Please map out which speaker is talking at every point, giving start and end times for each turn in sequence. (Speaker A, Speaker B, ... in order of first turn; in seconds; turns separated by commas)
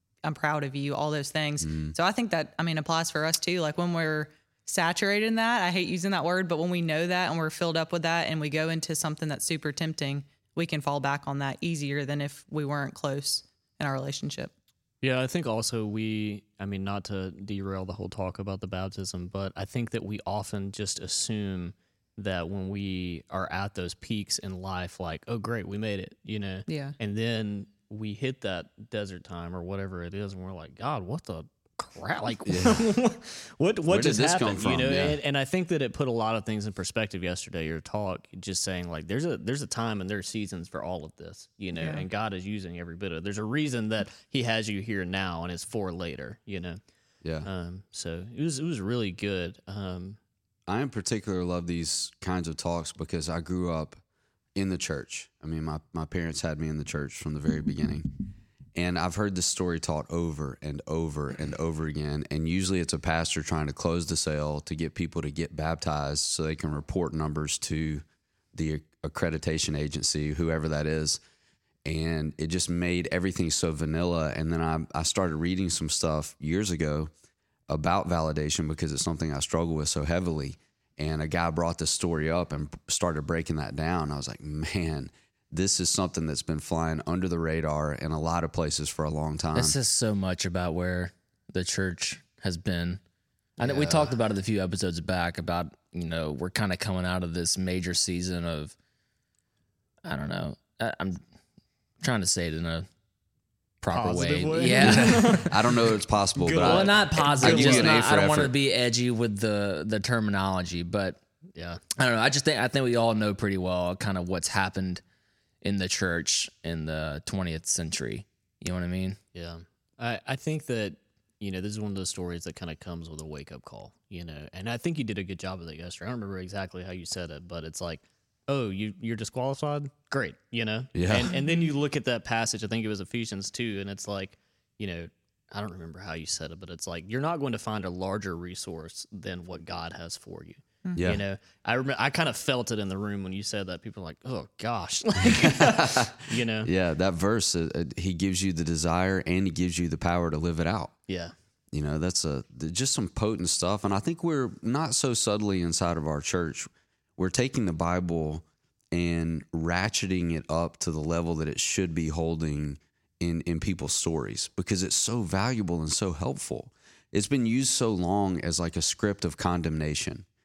Speaker A: 0.2-14.5, Speaker B: 1.6-1.9, Speaker C: 15.0-46.8, Speaker A: 26.7-26.9, Speaker B: 32.5-32.9, Speaker B: 33.9-35.2, Speaker A: 41.8-42.1, Speaker B: 47.2-47.5, Speaker C: 47.4-50.2, Speaker B: 50.7-54.0, Speaker B: 54.5-58.1, Speaker B: 58.8-68.0, Speaker B: 68.5-71.2, Speaker B: 71.8-77.1, Speaker B: 77.7-89.8, Speaker D: 89.5-93.0, Speaker C: 93.6-94.1, Speaker D: 93.6-98.7, Speaker D: 100.0-101.2, Speaker D: 102.0-102.9, Speaker D: 103.8-105.5, Speaker C: 103.9-108.1, Speaker B: 104.8-108.6, Speaker D: 106.6-111.2, Speaker C: 111.5-111.8, Speaker D: 112.0-115.0, Speaker D: 115.6-119.2, Speaker C: 119.3-146.7, Speaker B: 130.9-131.3, Speaker A: 131.3-131.7, Speaker B: 141.0-141.2, Speaker B: 145.2-150.9, Speaker C: 151.1-151.3, Speaker B: 151.7-170.2